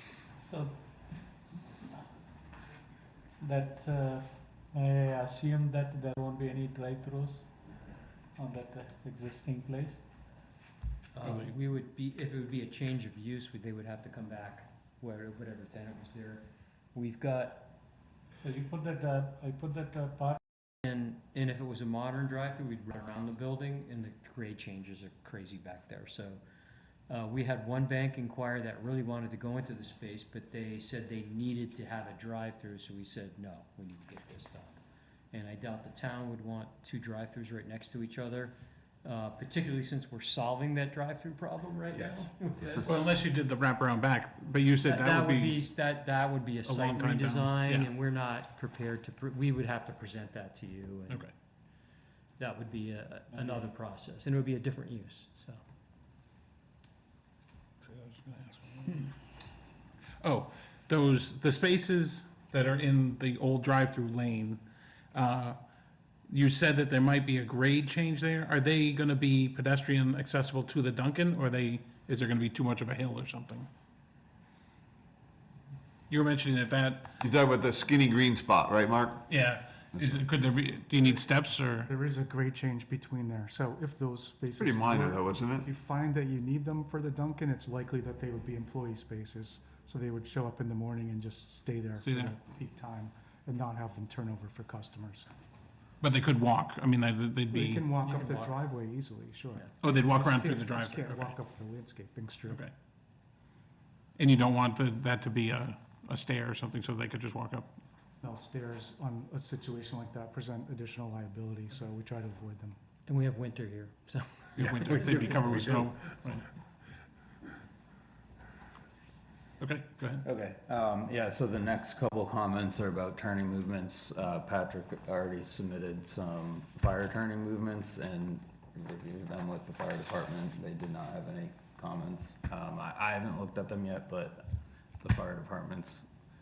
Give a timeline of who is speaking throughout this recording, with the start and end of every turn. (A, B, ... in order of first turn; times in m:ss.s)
0:00.4-0:01.1 A
0:03.4-0:07.5 A
0:08.4-0:10.0 A
0:11.1-0:17.7 B
0:11.2-0:11.5 C
0:18.4-0:20.4 A
0:20.8-0:26.4 B
0:27.1-0:34.8 B
0:35.3-0:42.9 B
0:42.8-0:45.6 C
0:44.8-0:51.3 B
0:46.6-0:47.9 C
0:52.4-0:55.6 B
0:57.8-0:59.1 C
1:00.2-1:04.6 C
1:05.1-1:05.6 C
1:06.3-1:13.7 C
1:16.1-1:17.1 C
1:17.2-1:19.3 D
1:19.3-1:21.9 C
1:20.0-1:20.2 D
1:21.9-1:35.3 E
1:24.6-1:25.7 D
1:32.0-1:32.4 C
1:36.0-1:37.8 C
1:37.5-1:42.7 E
1:38.0-1:38.7 B
1:39.8-1:41.4 C
1:44.2-1:47.7 C
1:48.2-1:52.8 E
1:53.1-1:55.9 B
1:54.6-1:56.4 C
1:59.6-2:00.2 C
2:00.2-2:16.1 F